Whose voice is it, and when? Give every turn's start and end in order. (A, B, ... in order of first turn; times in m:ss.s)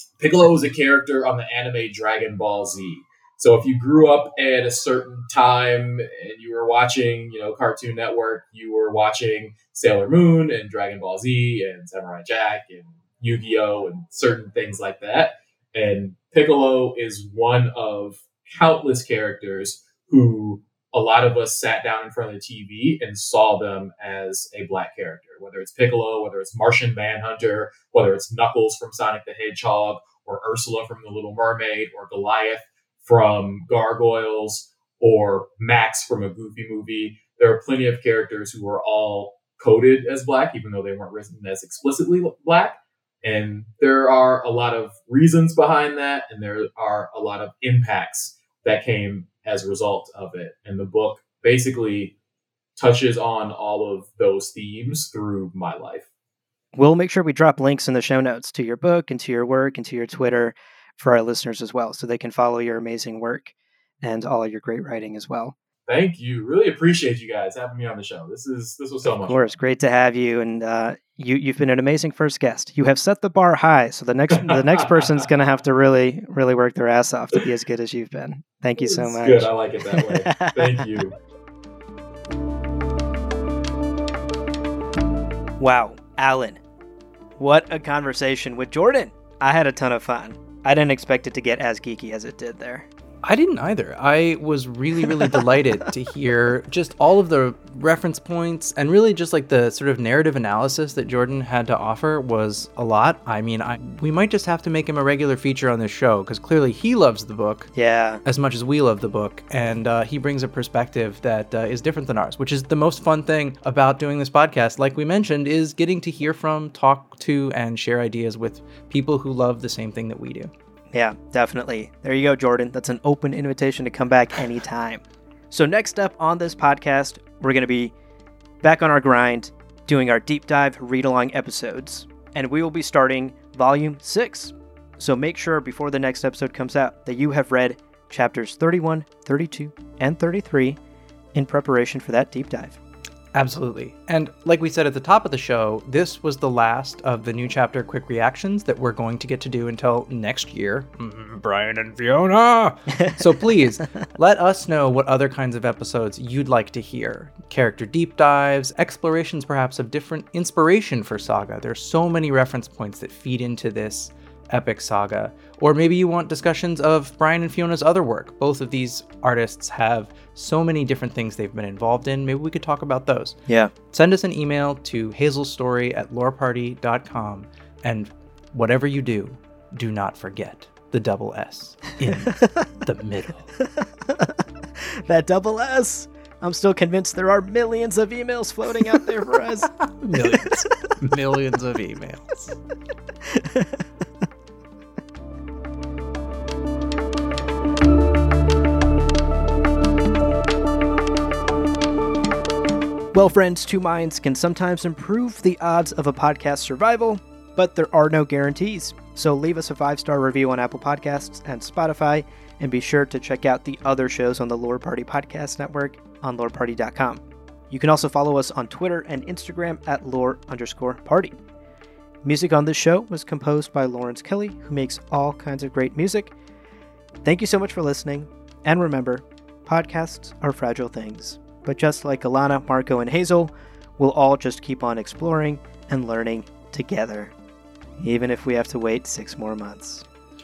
0:00.2-0:52.1 A
0:52.8-0:56.1 A
0:56.8-1:05.6 B
1:05.9-1:09.5 A
1:09.2-1:20.8 B
1:14.4-1:15.1 A
1:18.8-1:21.1 A
1:25.6-1:26.6 B
1:27.4-1:32.9 B
1:33.2-1:47.7 C
1:47.7-1:48.2 B
1:48.2-2:00.5 C
2:00.9-2:07.9 B
2:08.6-2:20.8 B
2:21.3-2:22.8 B
2:23.3-3:03.4 C
2:53.5-2:53.7 B
3:02.3-3:02.7 B
3:03.6-3:04.4 B
3:05.1-3:10.6 B
3:09.8-3:12.6 C
3:13.3-3:13.7 B
3:23.1-3:41.4 B
3:42.2-3:46.4 B
3:47.2-3:57.3 B
3:58.0-4:00.0 B